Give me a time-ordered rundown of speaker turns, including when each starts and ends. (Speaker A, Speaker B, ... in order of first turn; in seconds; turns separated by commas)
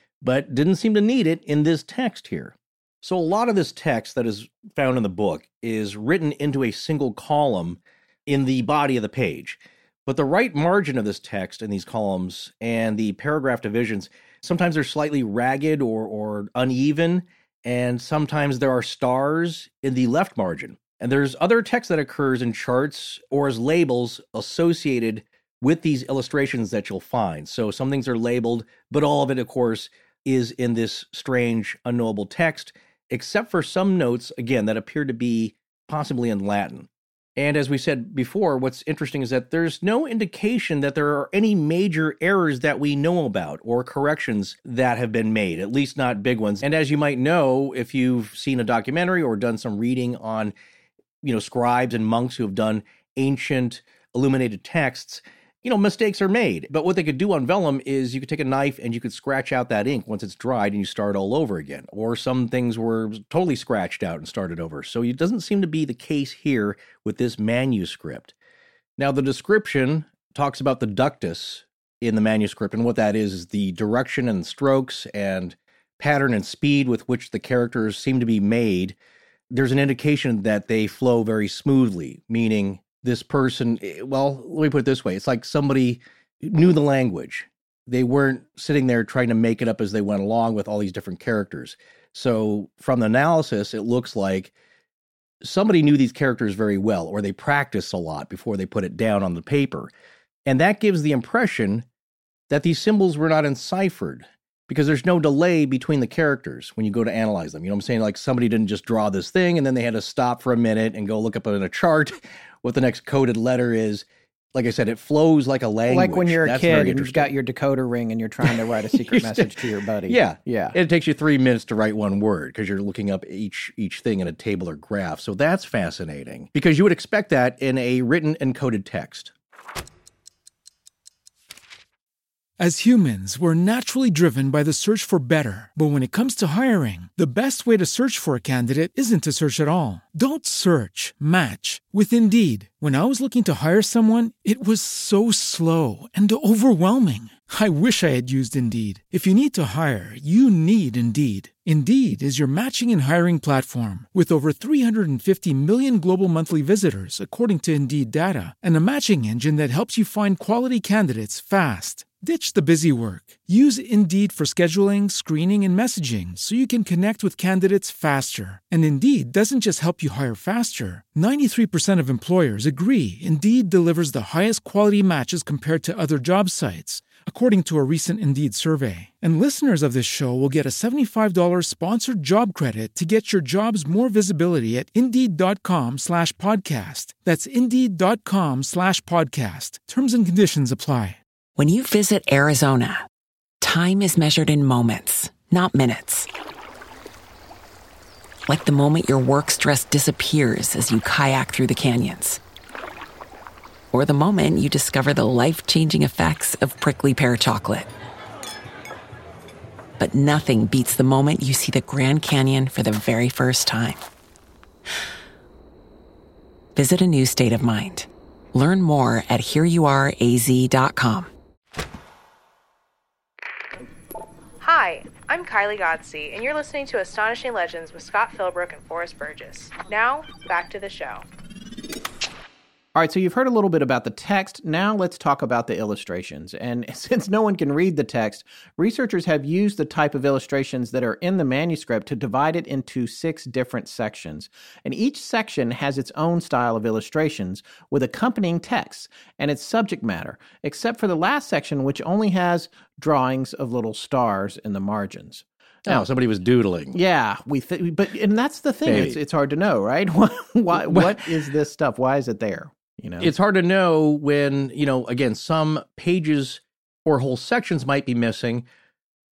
Speaker A: 0.2-50.5, Speaker A: 51.2-68.3, Speaker A: 69.0-79.0, Speaker A: 79.5-94.5, Speaker A: 95.4-99.9, Speaker A: 100.4-101.8, Speaker A: 102.5-117.3, Speaker B: 115.9-120.8, Speaker A: 118.4-129.3, Speaker C: 132.6-191.2, Speaker D: 191.6-193.1, Speaker D: 193.6-196.3, Speaker D: 198.5-202.4, Speaker D: 203.9-207.9, Speaker D: 210.0-214.0, Speaker D: 216.7-221.3, Speaker E: 224.6-231.2, Speaker B: 232.9-256.1, Speaker A: 255.8-257.0, Speaker B: 256.9-263.3, Speaker A: 258.8-259.2, Speaker A: 260.7-261.3, Speaker A: 263.2-268.6